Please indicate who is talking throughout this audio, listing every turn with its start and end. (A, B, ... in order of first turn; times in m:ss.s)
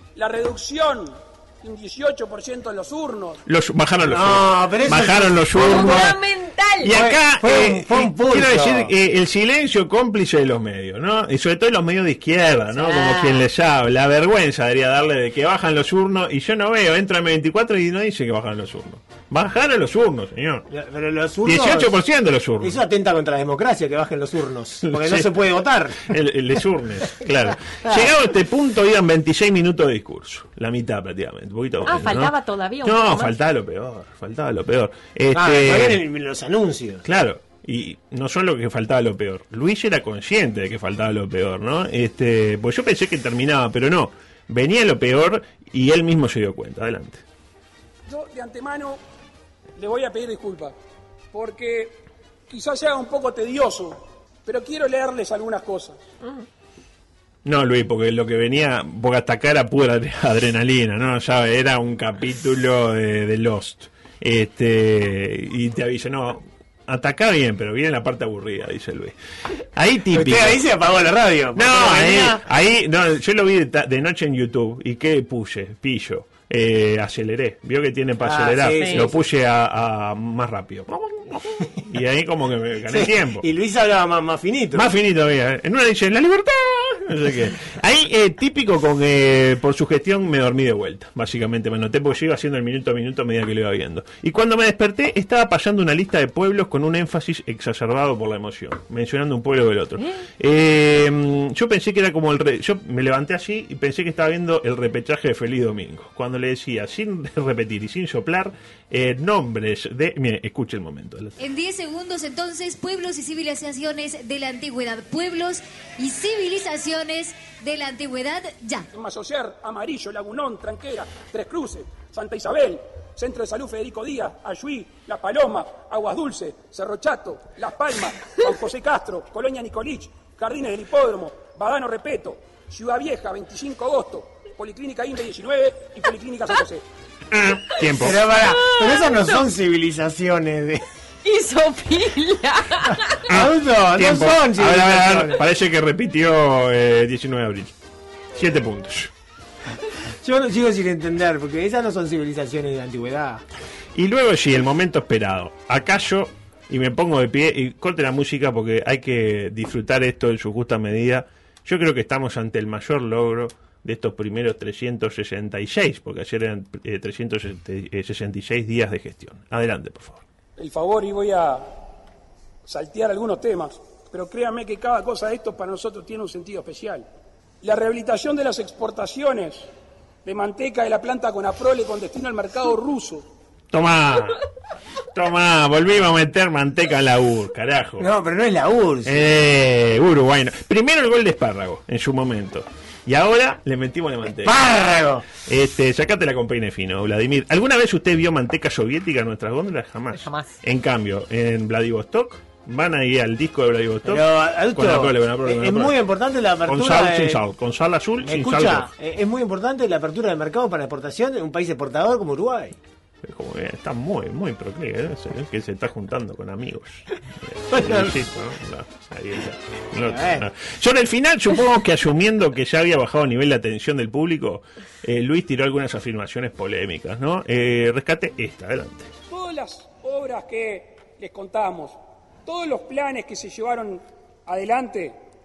0:00.2-0:03.4 A
0:03.5-0:06.2 B
0:04.0-0:06.1 C
0:05.6-0:06.9 D
0:06.8-0:20.6 B
0:06.9-0:08.9 C
0:12.7-0:13.4 D
0:20.7-0:21.9 C
0:21.4-0:22.8 B
0:22.6-0:26.1 C
0:24.9-0:25.3 B
0:26.0-0:32.3 B
0:27.7-0:28.1 C
0:31.8-0:33.3 D
0:32.8-0:36.0 B
0:35.3-0:37.0 C
0:37.1-0:47.2 B
0:48.1-0:49.0 A
0:49.8-0:50.7 A
0:51.3-0:56.0 A
0:57.4-1:09.1 B
1:09.8-1:10.6 B
1:10.1-1:12.4 C
1:11.6-1:23.4 B
1:18.2-1:19.2 C
1:18.8-1:19.0 D
1:22.9-1:24.9 C
1:24.7-1:51.4 B
1:40.0-1:40.2 D
1:51.4-1:58.9 E
1:58.9-2:16.8 A
2:17.3-2:18.2 B
2:17.9-2:20.8 C
2:18.3-2:19.4 D
2:21.2-2:23.2 D
2:23.3-2:25.4 C
2:23.3-2:27.7 B
2:28.4-2:29.1 B
2:30.2-2:33.4 C
2:33.9-2:50.2 B
2:50.6-2:51.7 A
2:52.6-2:57.1 A
2:57.6-2:59.6 A
3:00.2-3:03.2 A
3:03.7-3:04.4 B
3:05.1-3:08.1 B
3:08.0-3:09.3 C
3:09.0-3:14.6 B
3:14.4-3:15.3 C
3:15.4-3:26.0 B
3:20.1-3:20.6 D
3:24.0-3:27.4 C
3:26.7-3:28.9 B
3:28.2-3:32.8 C
3:33.2-3:49.1 B
3:37.7-3:38.2 C
3:40.0-3:40.5 C
3:49.3-3:55.2 A